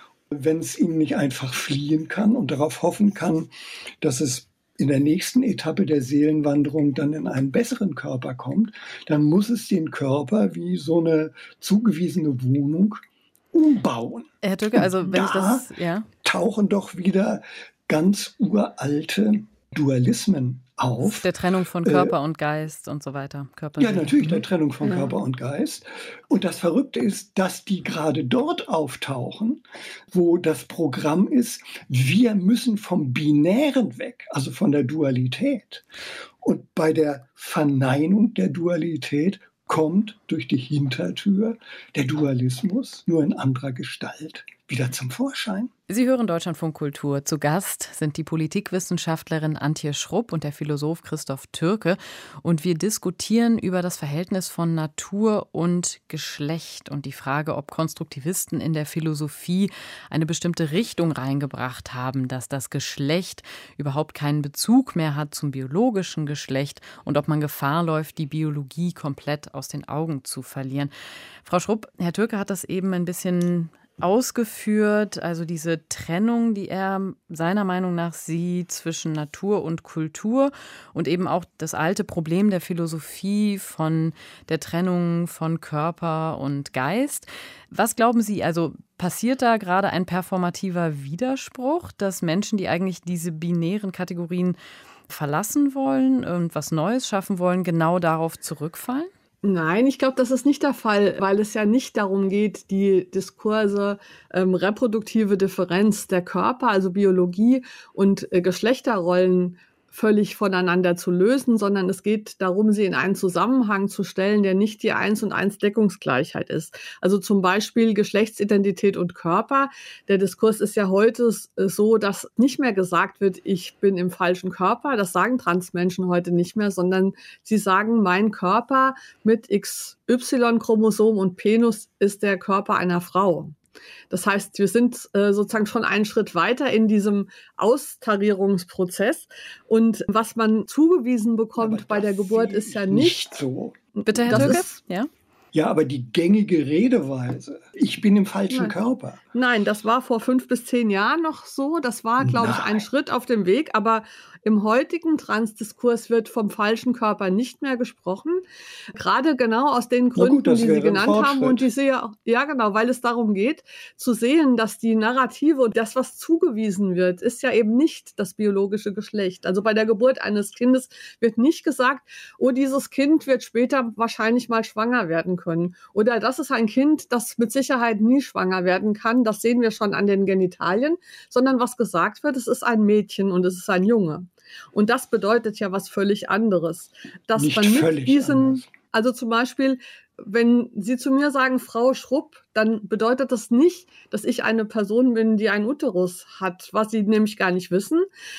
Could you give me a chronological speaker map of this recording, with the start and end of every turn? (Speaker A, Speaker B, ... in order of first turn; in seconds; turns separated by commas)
Speaker A: 0.3-3.5, Speaker A: 4.0-13.0, Speaker A: 13.5-15.7, Speaker B: 14.4-16.1, Speaker A: 16.2-21.3, Speaker B: 21.0-24.4, Speaker A: 21.8-22.1, Speaker A: 23.8-35.8, Speaker A: 36.4-45.7, Speaker B: 45.9-70.9, Speaker B: 71.4-94.6, Speaker B: 95.1-99.1, Speaker C: 99.4-133.5, Speaker C: 134.1-143.2, Speaker A: 141.6-143.8, Speaker C: 144.0-144.6, Speaker B: 144.1-145.1, Speaker A: 144.3-144.7, Speaker A: 145.5-149.2, Speaker C: 149.3-158.4, Speaker A: 152.2-152.9, Speaker C: 158.9-198.1, Speaker A: 160.2-161.7, Speaker A: 187.3-188.7